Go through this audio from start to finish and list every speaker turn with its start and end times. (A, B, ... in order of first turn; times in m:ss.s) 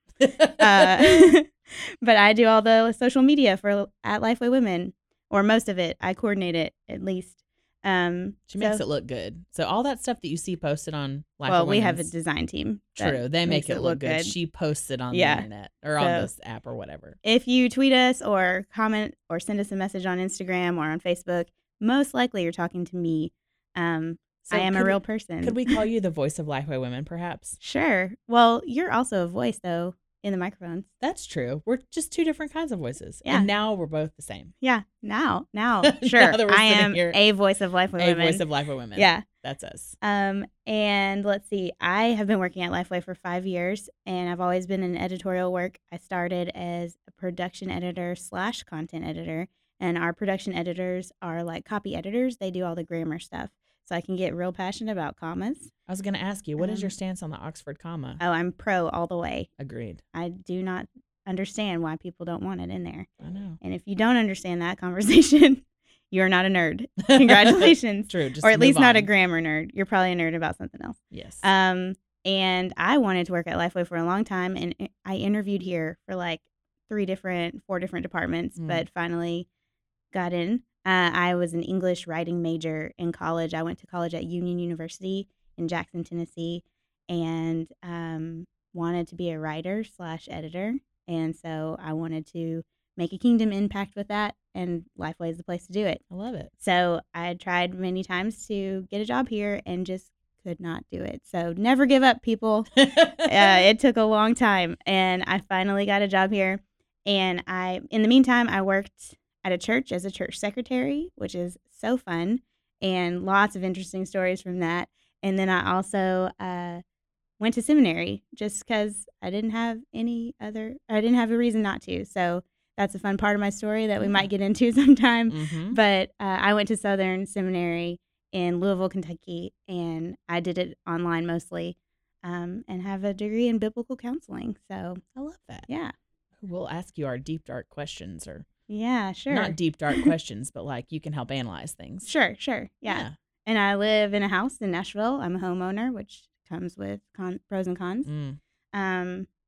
0:00.2-0:01.3 A
0:00.6-0:08.8 B
0:08.5-0:12.1 A
0:11.4-0:14.3 B
0:13.0-0:17.2 A
0:15.1-0:16.3 B
0:17.2-0:25.8 B
0:24.5-0:27.6 A
0:27.6-0:30.9 B
0:31.0-0:34.5 A
0:34.6-0:39.2 B
0:35.8-0:37.2 A
0:38.0-0:40.0 A
0:40.0-0:55.7 B
0:55.9-0:58.2 A
0:56.6-0:56.9 B
0:58.2-0:59.5 B
0:59.6-1:00.0 A
1:00.1-1:03.1 B
1:03.2-1:03.6 A
1:03.6-1:19.5 B
1:07.1-1:09.1 A
1:11.1-1:11.4 A
1:18.6-1:18.8 A
1:20.1-1:36.0 B
1:36.1-1:36.5 A
1:36.6-1:42.7 B
1:42.8-1:43.6 A
1:43.2-1:56.8 B
1:57.4-2:15.0 B
2:04.0-2:04.3 A
2:05.3-2:05.8 A
2:15.1-2:15.7 A
2:15.7-2:15.9 B
2:16.4-2:18.4 A
2:18.7-2:20.1 B
2:19.3-2:22.1 A
2:22.0-2:28.1 B
2:22.9-2:23.1 A
2:28.0-2:28.4 A
2:28.7-2:29.3 B